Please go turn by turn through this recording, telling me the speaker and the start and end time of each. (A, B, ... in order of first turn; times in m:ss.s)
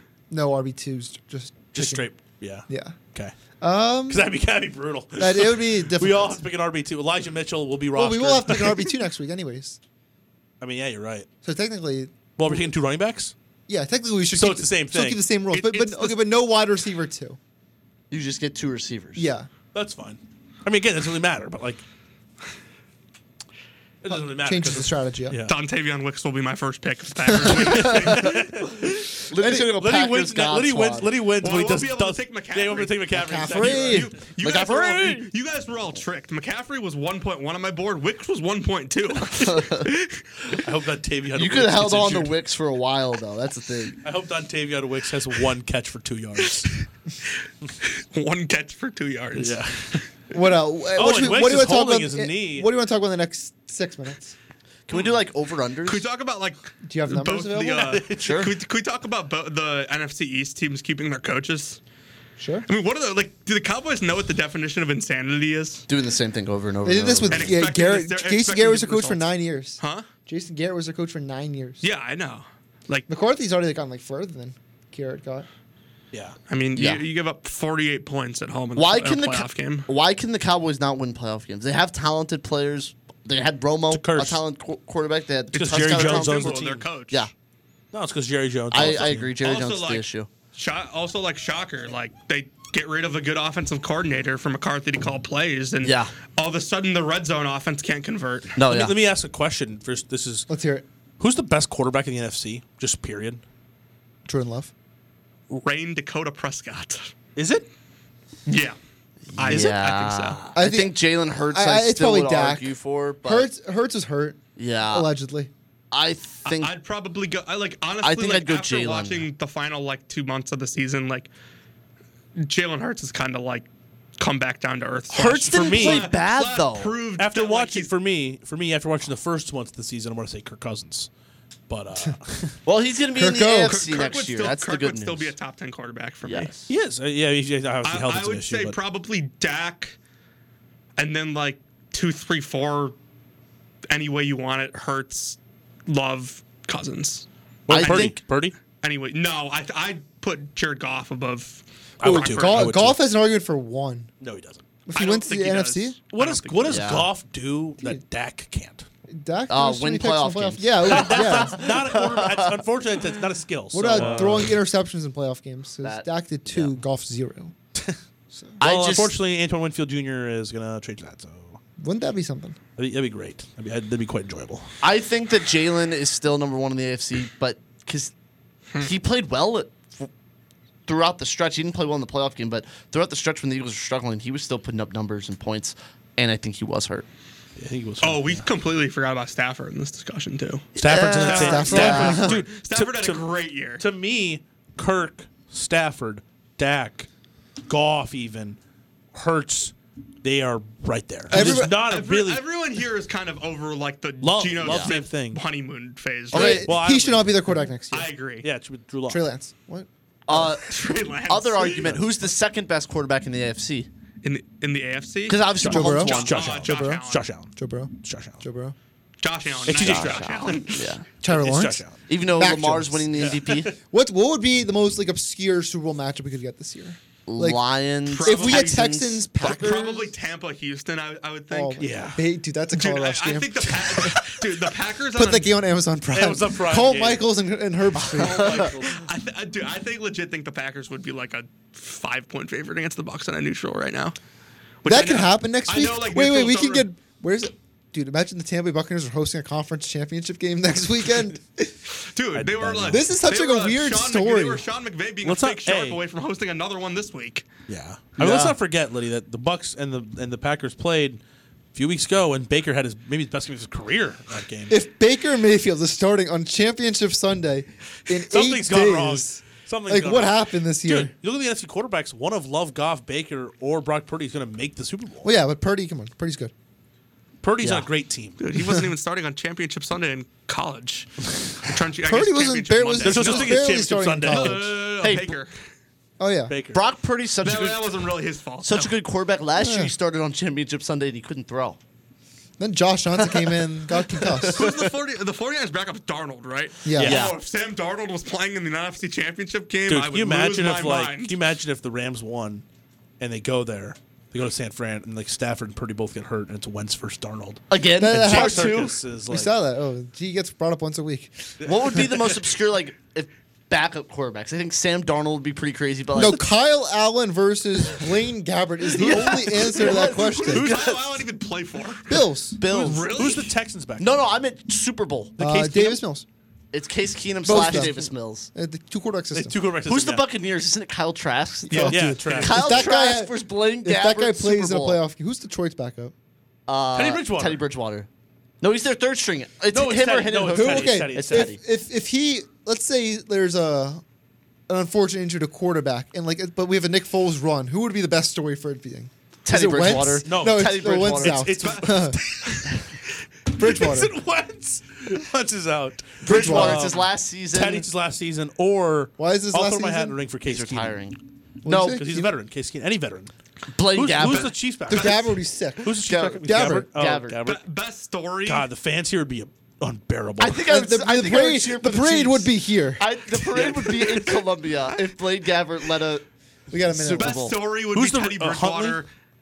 0:00.3-0:02.1 A
0:01.7-0:03.3 B
0:02.7-0:03.0 A
0:03.6-0:04.3 A
0:04.1-0:08.9 B
0:05.2-0:06.5 A
0:08.0-0:09.8 A
0:10.6-0:11.3 B
0:11.4-0:12.7 A
0:12.4-0:13.3 B
0:13.7-0:17.4 A
0:14.3-0:15.2 B
0:15.5-0:16.2 C
0:18.1-0:19.3 D
0:19.2-0:19.5 A
0:19.7-0:21.8 B
0:24.0-0:25.6 B
0:24.1-0:25.4 A
0:25.5-0:28.8 C
0:27.4-0:34.7 B
0:29.3-0:31.1 D
0:29.4-0:29.7 A
0:31.4-0:40.2 C
0:33.1-0:34.1 A
0:34.4-0:35.2 D
0:39.2-0:39.9 D
0:40.5-0:42.3 B
0:41.3-0:44.0 D
0:44.0-0:46.7 B
0:47.8-0:50.0 C
0:49.4-0:50.0 B
0:50.3-0:54.4 A
0:51.0-0:52.7 B
0:54.9-0:56.1 D
0:55.8-1:01.8 C
0:56.8-0:58.0 A
0:57.7-0:58.5 B
0:58.2-0:58.5 D
1:02.4-1:02.7 A
1:02.7-1:05.9 C
1:05.9-1:07.6 D
1:06.8-1:11.8 A
1:07.3-1:10.1 C
1:11.8-1:13.1 C
1:13.1-1:15.5 A
1:16.5-1:19.9 C
1:16.8-1:17.0 D
1:18.8-1:27.3 D
1:23.9-1:24.4 B
1:25.5-1:26.9 B
1:25.7-1:27.3 C
1:27.9-1:29.3 B
1:28.7-1:30.3 D
1:28.7-1:38.6 C
1:35.8-1:36.1 D
1:38.6-1:39.0 D
1:38.7-1:40.5 B
1:40.5-1:40.8 A
1:41.2-1:43.4 B
1:44.3-1:44.7 A
1:45.5-1:47.1 C
1:47.4-1:47.7 B
1:48.5-1:48.8 C
1:49.3-1:53.5 D
1:49.4-1:50.4 C
1:50.6-1:55.5 A
1:54.6-1:55.1 D
1:55.9-1:56.7 D
1:56.4-2:01.3 C
1:58.0-1:59.3 D
2:02.4-2:07.9 C
2:05.1-2:07.0 D
2:05.2-2:06.1 B
2:07.2-2:11.1 B
2:11.7-2:12.6 B
2:12.7-2:15.3 D
2:13.2-2:13.8 A
2:13.6-2:16.5 C
2:16.2-2:16.7 D
2:16.7-2:18.8 B
2:17.8-2:20.0 C
2:21.0-2:23.0 C
2:23.9-2:28.1 C
2:27.7-2:28.6 B
2:27.7-2:28.2 D
2:28.8-2:32.7 C
2:32.0-2:33.0 B
2:32.0-2:34.1 A
2:34.2-2:34.6 B
2:34.9-2:36.0 A
2:34.9-2:37.0 C
2:36.1-2:38.9 B
2:36.7-2:37.1 D
2:39.1-2:41.6 A
2:39.5-2:42.7 D
2:40.8-2:44.6 B
2:43.7-2:47.5 A
2:44.0-2:44.4 D
2:45.8-2:46.8 D
2:48.3-2:48.6 A
2:48.6-2:49.2 D
2:48.6-2:51.6 B
2:51.8-2:52.6 A
2:52.8-2:54.7 B
2:54.8-2:58.1 D
2:58.8-3:00.1 D
3:00.9-3:07.1 D
3:07.6-3:08.5 B
3:08.0-3:10.7 C
3:10.8-3:12.2 D
3:10.8-3:13.3 B
3:11.2-3:13.8 C
3:11.4-3:12.4 A
3:13.8-3:17.1 B
3:17.7-3:18.6 B
3:19.1-3:22.4 B
3:21.3-3:21.8 A
3:21.3-3:26.7 C
3:24.2-3:25.4 B
3:24.6-3:25.0 D
3:26.3-3:26.7 D
3:26.3-3:28.1 A
3:26.4-3:27.6 B
3:27.9-3:28.5 C
3:28.4-3:29.2 B
3:29.1-3:29.9 A
3:30.3-3:33.9 D
3:30.6-3:32.0 C
3:34.2-3:37.3 C
3:35.3-3:36.6 D
3:35.6-3:38.4 B
3:35.7-3:38.8 A
3:39.2-3:40.9 C
3:39.7-3:40.6 B
3:39.7-3:41.1 D
3:41.2-3:43.1 A
3:41.3-3:42.0 B
3:42.1-3:43.7 D
3:43.2-3:43.7 B
3:43.9-3:47.6 A
3:47.3-3:50.1 D
3:48.1-3:52.1 C
3:48.2-3:50.1 A
3:51.5-3:54.4 A
3:51.8-3:52.2 B
3:52.7-3:55.6 C
3:55.2-3:58.7 A
3:56.1-3:57.3 B
3:58.0-3:59.0 B
3:58.4-3:58.7 D
3:59.0-4:04.2 C
4:04.8-4:06.8 C
4:04.9-4:11.7 A
4:12.0-4:17.5 C
4:12.4-4:13.1 B
4:12.9-4:14.6 A
4:15.2-4:16.0 B
4:17.7-4:21.2 B
4:18.2-4:18.6 D
4:21.7-4:24.8 B
4:24.7-4:31.1 A
4:28.3-4:35.3 B
4:35.2-4:36.5 A
4:37.4-4:38.4 B
4:37.6-4:37.9 D
4:38.4-4:41.1 C
4:41.6-4:43.6 C
4:42.0-4:44.7 A
4:43.0-4:45.2 B
4:44.3-4:45.5 C
4:45.0-4:45.4 D
4:46.2-4:46.5 A
4:46.5-4:46.8 B
4:46.7-4:51.8 D
4:47.4-4:49.0 C
4:49.6-4:49.9 A
4:52.6-4:54.6 A
4:53.4-4:54.8 D
4:54.5-5:01.4 C
4:56.8-4:57.3 A
4:57.0-4:57.4 D
4:59.9-5:02.6 B
5:03.2-5:09.5 B
5:07.7-5:09.0 D
5:08.0-5:11.5 A
5:11.6-5:12.4 B
5:11.6-5:16.5 D
5:16.1-5:20.7 A
5:18.9-5:21.3 D
5:19.0-5:19.9 B
5:20.3-5:22.0 C
5:22.1-5:22.6 A
5:22.6-5:23.3 D
5:22.6-5:23.5 C
5:22.7-5:24.2 B
5:24.0-5:25.4 D
5:25.4-5:26.0 B
5:25.4-5:26.3 A
5:26.7-5:28.5 D
5:27.4-5:29.6 A
5:27.6-5:27.9 B
5:29.3-5:30.3 B
5:29.8-5:35.0 D
5:31.7-5:32.5 C
5:31.7-5:36.1 A
5:31.8-5:32.9 B
5:36.7-5:38.1 D
5:36.9-5:37.6 B
5:38.6-5:41.6 D
5:39.7-5:41.6 B
5:40.5-5:44.0 A
5:44.7-5:52.2 A
5:49.4-5:51.7 D
5:50.2-5:52.8 B
5:51.6-5:52.7 C
5:53.6-5:54.2 A
5:53.6-6:01.0 B
5:56.2-5:57.9 D
5:56.2-5:56.9 A
5:59.2-6:00.2 A
6:00.5-6:02.1 D
6:01.6-6:02.3 A
6:01.7-6:03.3 B
6:03.7-6:04.6 D
6:03.9-6:07.6 B
6:04.9-6:06.9 A
6:04.9-6:05.2 C
6:05.9-6:07.4 D
6:07.4-6:08.7 C
6:08.4-6:10.7 B
6:10.4-6:16.2 D
6:10.6-6:13.0 A
6:13.4-6:14.4 B
6:16.7-6:17.4 A
6:16.8-6:17.6 D
6:17.2-6:19.1 C
6:17.9-6:19.0 B